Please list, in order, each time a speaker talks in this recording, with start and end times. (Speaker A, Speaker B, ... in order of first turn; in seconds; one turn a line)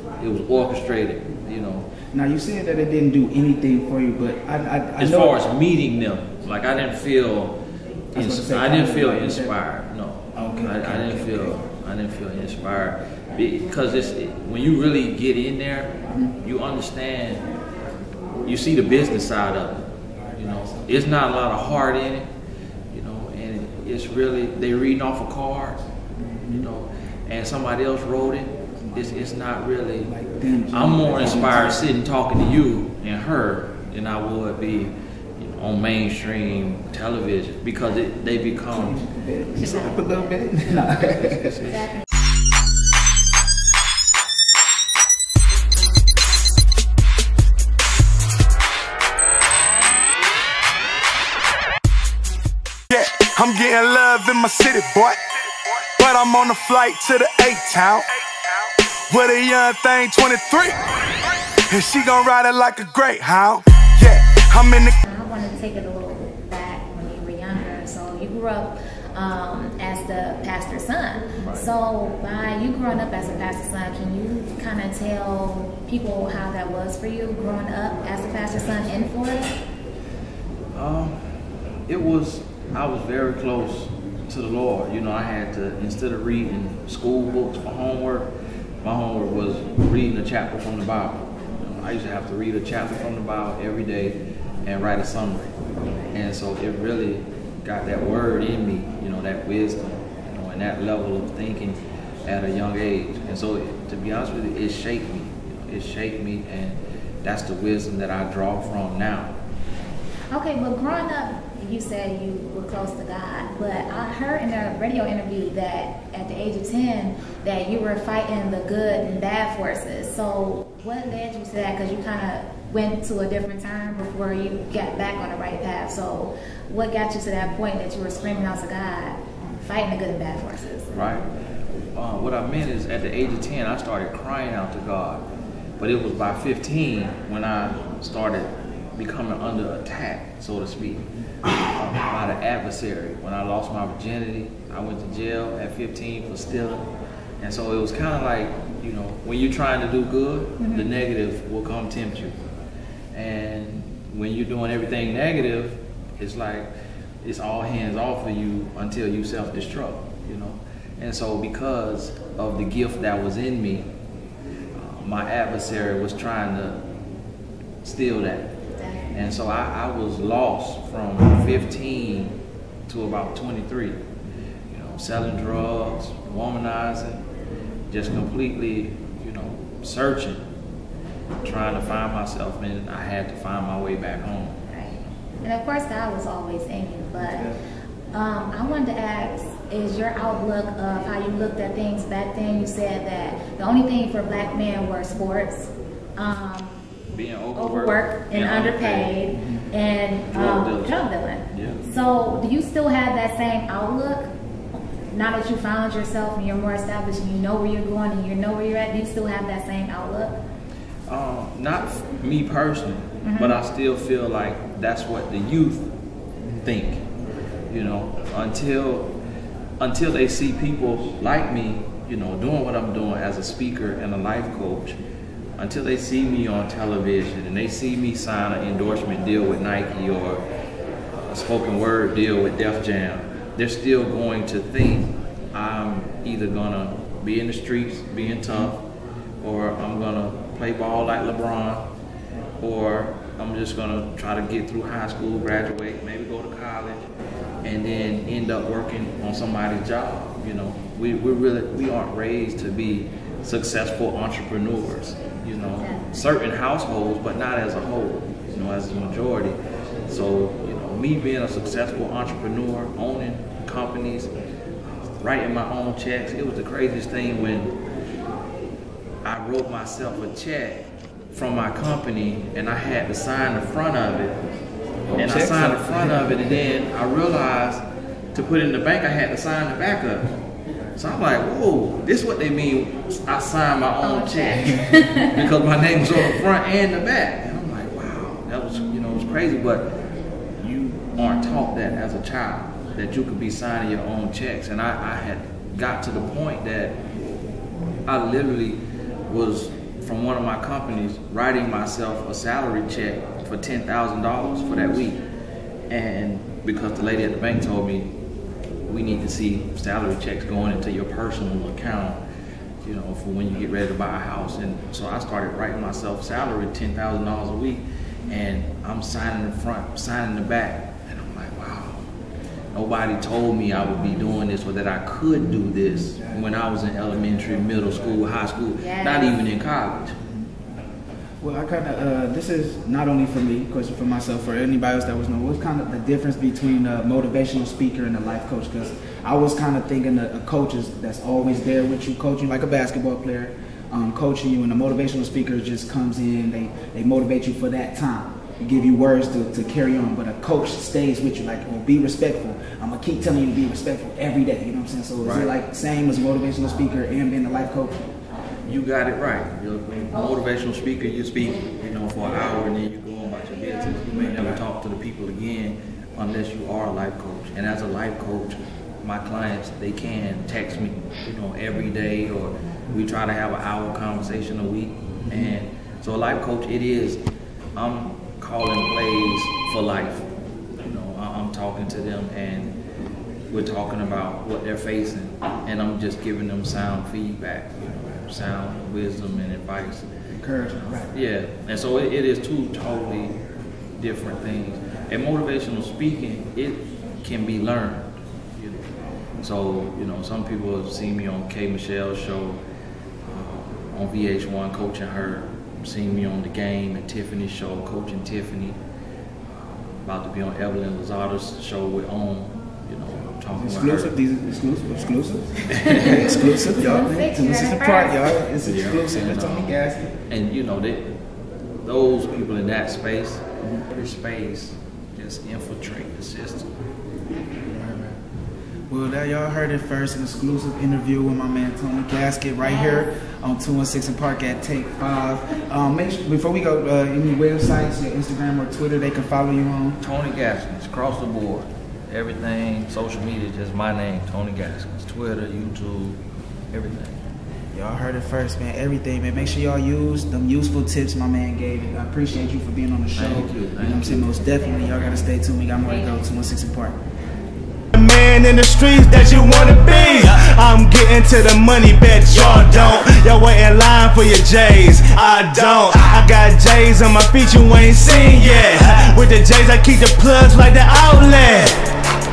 Speaker A: 0.2-1.9
Speaker B: 2.1-5.4
Speaker A: 5.0-7.6
Speaker A: 8.1-17.4
Speaker B: 8.1-9.5
Speaker B: 10.3-11.6
Speaker B: 16.1-16.3
Speaker A: 18.4-22.3
Speaker B: 20.4-21.1
Speaker A: 22.9-25.8
Speaker B: 26.2-26.7
Speaker A: 26.5-30.1
Speaker B: 28.8-31.9
Speaker A: 30.7-39.1
Speaker B: 38.7-41.8
Speaker A: 41.1-41.9
Speaker C: 52.9-55.2
Speaker C: 55.8-60.8
Speaker C: 61.7-65.0
Speaker D: 65.0-79.5
Speaker A: 71.4-71.7
Speaker A: 80.7-81.3
Speaker A: 81.9-88.3
Speaker A: 88.8-95.5
Speaker A: 96.1-109.3
Speaker D: 110.3-130.9
Speaker A: 130.9-131.2
Speaker A: 131.9-135.2
Speaker A: 135.8-141.1
Speaker A: 141.7-146.9
Speaker A: 147.4-152.4
Speaker D: 150.6-150.9
Speaker A: 153.1-156.7
Speaker A: 157.2-163.9
Speaker A: 164.7-166.8
Speaker A: 167.8-168.6
Speaker D: 168.7-169.0
Speaker A: 169.1-172.4
Speaker A: 172.9-174.0
Speaker A: 174.7-177.2
Speaker A: 177.9-180.4
Speaker A: 181.4-184.6
Speaker D: 184.7-187.5
Speaker B: 187.2-187.6
Speaker D: 188.1-196.8
Speaker A: 197.1-199.2
Speaker D: 197.6-204.3
Speaker B: 199.3-199.7
Speaker A: 200.3-201.8
Speaker D: 205.1-210.4
Speaker A: 211.1-215.9
Speaker D: 213.2-213.6
Speaker A: 216.6-217.0
Speaker A: 217.7-219.1
Speaker A: 219.8-225.0
Speaker A: 225.6-230.4
Speaker A: 231.1-238.8
Speaker A: 239.4-241.9
Speaker A: 242.6-247.1
Speaker A: 247.6-264.3
Speaker D: 255.8-256.2
Speaker A: 264.8-267.7
Speaker A: 269.2-274.4
Speaker B: 275.1-276.6
Speaker A: 275.1-277.8
Speaker A: 278.3-280.3
Speaker A: 280.9-289.9
Speaker D: 284.0-285.3
Speaker A: 290.6-297.0
Speaker A: 298.1-305.2
Speaker A: 305.9-308.1
Speaker A: 308.9-312.2
Speaker A: 312.8-322.1
Speaker A: 322.7-330.1
Speaker B: 326.2-328.1
Speaker D: 328.8-329.4
Speaker B: 331.4-358.1
Speaker A: 355.2-355.5
Speaker A: 358.6-377.2
Speaker B: 375.3-375.5
Speaker A: 377.8-380.2
Speaker A: 380.8-382.8
Speaker A: 383.5-390.1
Speaker B: 390.3-391.1
Speaker A: 391.1-393.4
Speaker A: 393.9-398.9
Speaker A: 399.4-402.6
Speaker A: 403.2-408.8
Speaker A: 409.5-414.1
Speaker B: 413.6-420.1
Speaker A: 415.8-416.2
Speaker D: 416.8-418.2
Speaker A: 418.6-421.2
Speaker A: 421.8-426.7
Speaker B: 427.7-428.2
Speaker B: 428.9-440.0
Speaker D: 432.6-433.1
Speaker A: 440.0-446.2
Speaker A: 446.7-447.2
Speaker B: 447.7-457.0
Speaker A: 453.1-454.7
Speaker D: 455.8-456.2
Speaker C: 457.9-471.9